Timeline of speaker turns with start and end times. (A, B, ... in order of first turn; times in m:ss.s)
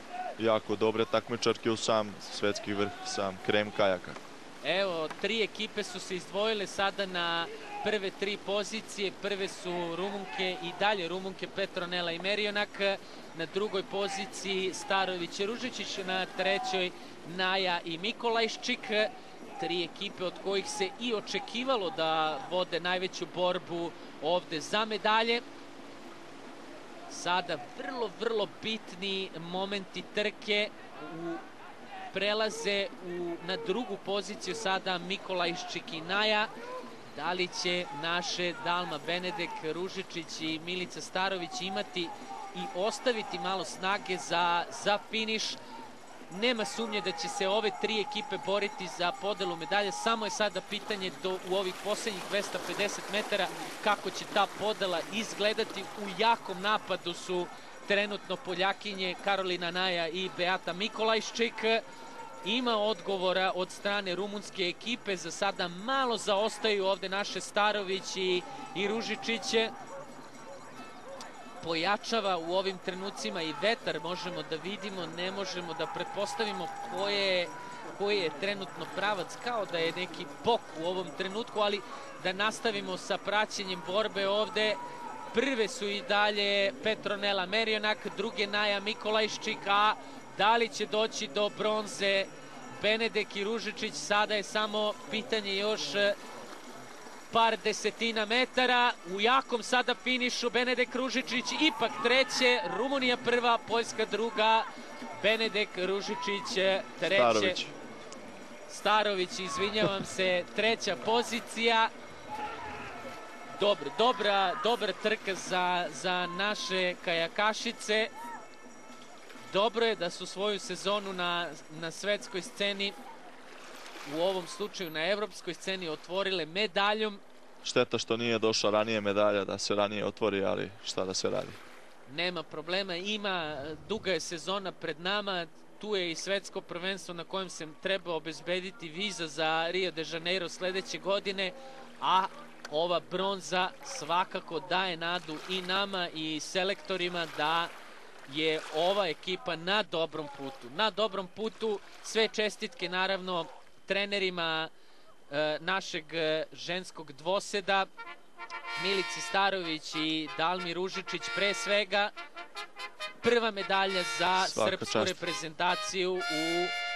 0:00.4-0:04.2 A
0:04.6-0:25.4 B
0:27.1-0:31.4 B
0:32.1-0:36.5 B
0:37.1-0:45.6 B
0:46.3-1:01.8 B
1:02.4-1:09.7 B
1:11.6-1:24.8 B
1:25.3-1:36.1 B
1:37.3-1:44.7 B
1:45.2-1:47.6 B
1:47.0-1:47.7 A
1:48.7-1:51.9 B
1:53.6-1:58.1 B
1:59.5-2:03.0 B
2:04.0-2:07.2 B
2:07.6-2:11.6 A
2:12.1-2:27.7 B
2:28.3-2:34.7 B
2:35.3-2:37.9 B
2:38.8-2:42.1 B
2:43.2-2:46.7 B
2:44.4-2:45.2 A